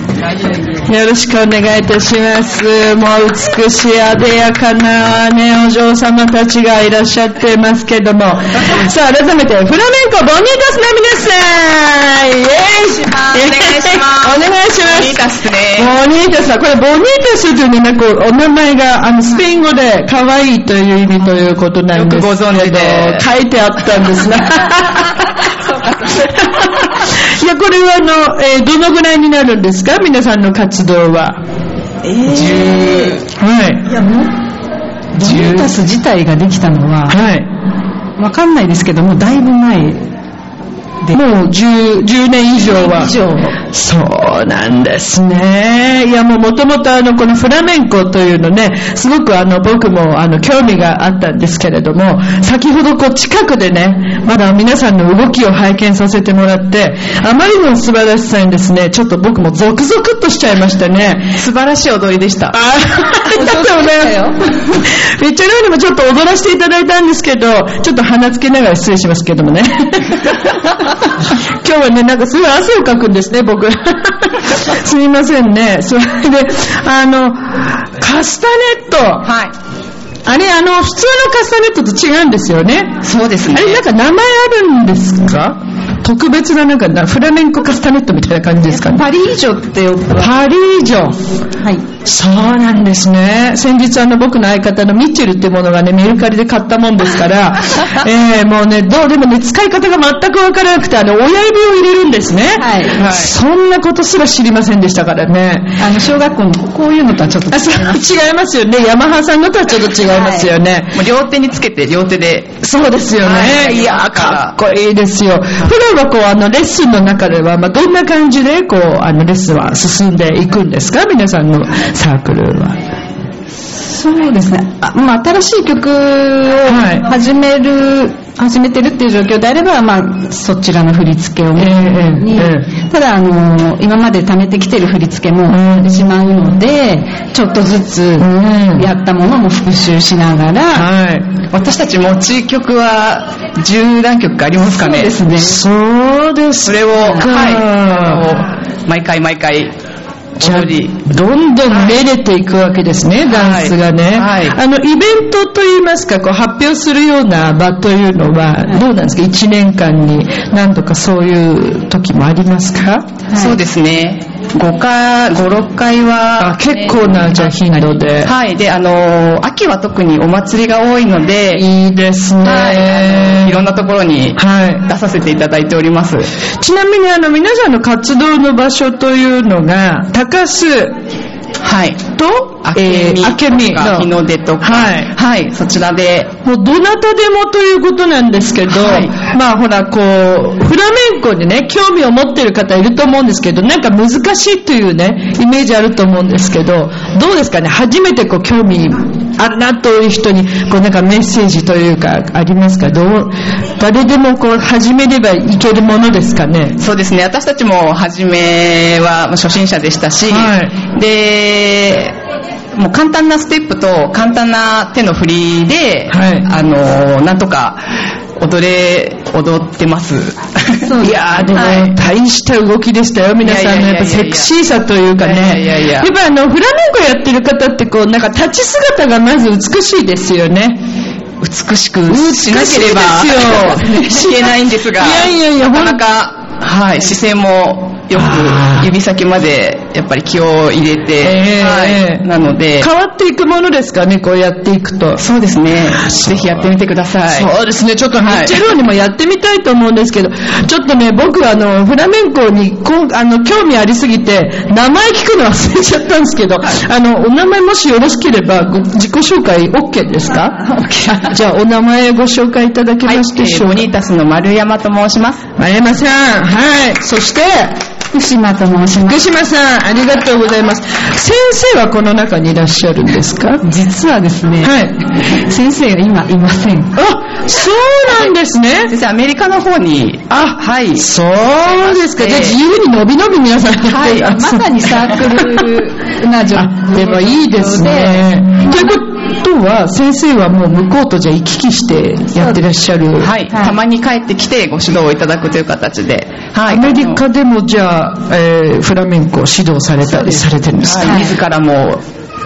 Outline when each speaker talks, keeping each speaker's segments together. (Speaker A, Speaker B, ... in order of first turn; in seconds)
Speaker A: 0.9-25.4, 26.4-31.4, 32.5-34.0, 35.2-35.7, 37.1-37.5, 41.1-61.3, 62.5-70.7, 71.6-79.3, 80.3-89.1, 90.2-91.2, 92.1-105.8, 107.5-111.0, 112.6-122.8, 126.7-127.1, 131.6-132.7, 135.5-136.1, 138.2-138.9, 140.7-141.3, 145.4-148.4, 150.4-163.1, 166.4-168.3, 171.6-173.6, 174.4-174.9, 176.6-180.9, 182.1-185.1, 186.4-206.8, 210.3-210.8, 216.1-216.5, 221.0-230.8, 232.1-236.0, 238.2-238.9, 241.2-242.3, 242.8-245.2, 246.1-246.6, 247.3-260.6, 261.3-263.9, 265.6-267.8, 269.1-273.6, 274.6-274.9, 276.9-278.9, 280.3-284.6, 286.6-293.3, 296.7-301.3
Speaker B: 13.3-15.9, 21.9-23.2, 32.2-33.2, 61.4-62.6, 79.2-79.5, 83.0-83.8, 89.2-90.2, 103.0-103.3, 110.9-112.6, 113.2-114.5, 141.5-145.2, 146.6-149.7, 150.4-151.0, 151.7-151.9, 153.3-154.6, 163.3-166.9, 168.2-171.6, 172.4-176.3, 181.6-186.3, 188.7-189.1, 206.8-212.2, 212.7-217.8, 218.4-220.9, 221.6-221.9, 223.4-224.5, 225.2-226.1, 231.4-242.9, 245.2-247.5, 248.2-248.6, 263.1-265.4, 278.9-281.1, 281.9-282.6, 293.2-297.2, 300.8-302.0
Speaker C: 32.3-33.0, 33.9-34.3, 35.1-37.2, 38.2-40.0, 42.6-43.6, 63.3-64.4, 102.6-103.0, 105.8-108.0, 110.1-110.5, 123.7-140.9, 144.7-145.6, 147.0-147.3, 163.3-163.6, 220.9-221.9, 260.7-261.2, 268.1-269.2, 273.6-274.8, 275.3-276.9, 283.9-289.0, 293.5-293.8, 300.1-300.4, 301.0-301.4